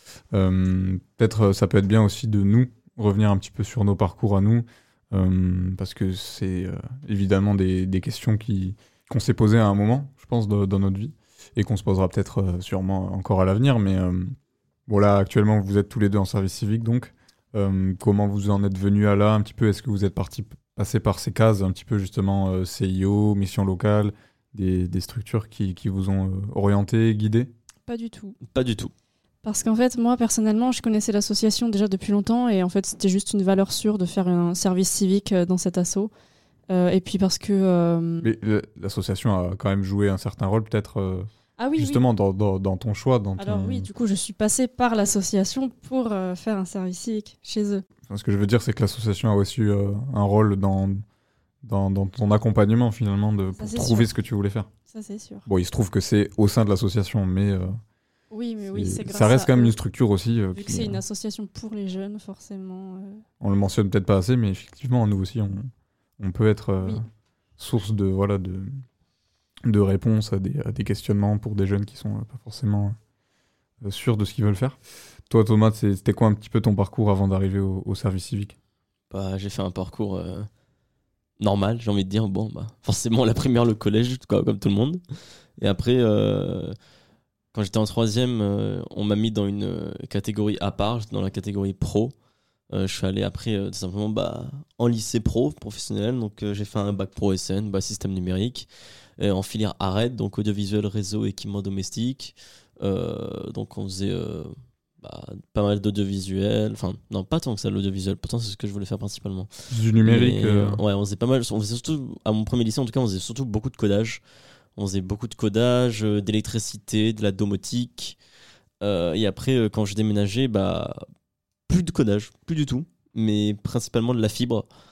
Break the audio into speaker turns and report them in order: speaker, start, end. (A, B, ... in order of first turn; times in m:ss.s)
0:00.3-0:14.4 A
0:14.9-0:27.5 A
0:27.9-0:28.4 B
0:28.5-0:28.9 C
0:29.4-0:36.1 B
0:36.7-0:38.3 B
0:38.2-0:43.9 A
0:41.6-0:42.0 B
0:43.4-0:47.8 B
0:48.1-0:51.0 A
0:51.6-0:54.7 A
0:53.6-0:54.1 B
0:54.9-0:55.4 B
0:55.5-0:57.8 A
0:58.3-0:59.8 B
0:58.7-1:01.0 A
1:00.6-1:03.2 B
1:03.4-1:07.0 A
1:07.6-1:08.8 A
1:09.6-1:13.0 A
1:13.8-1:14.8 A
1:15.3-1:18.6 A
1:19.1-1:20.5 C
1:21.4-1:25.0 C
1:25.6-1:26.8 C
1:27.5-1:32.1 C
1:32.7-1:49.5 C
1:49.7-1:50.8 A
1:50.0-1:54.2 C
1:54.8-1:58.2 C
1:58.8-2:01.1 C
2:01.7-2:04.7 C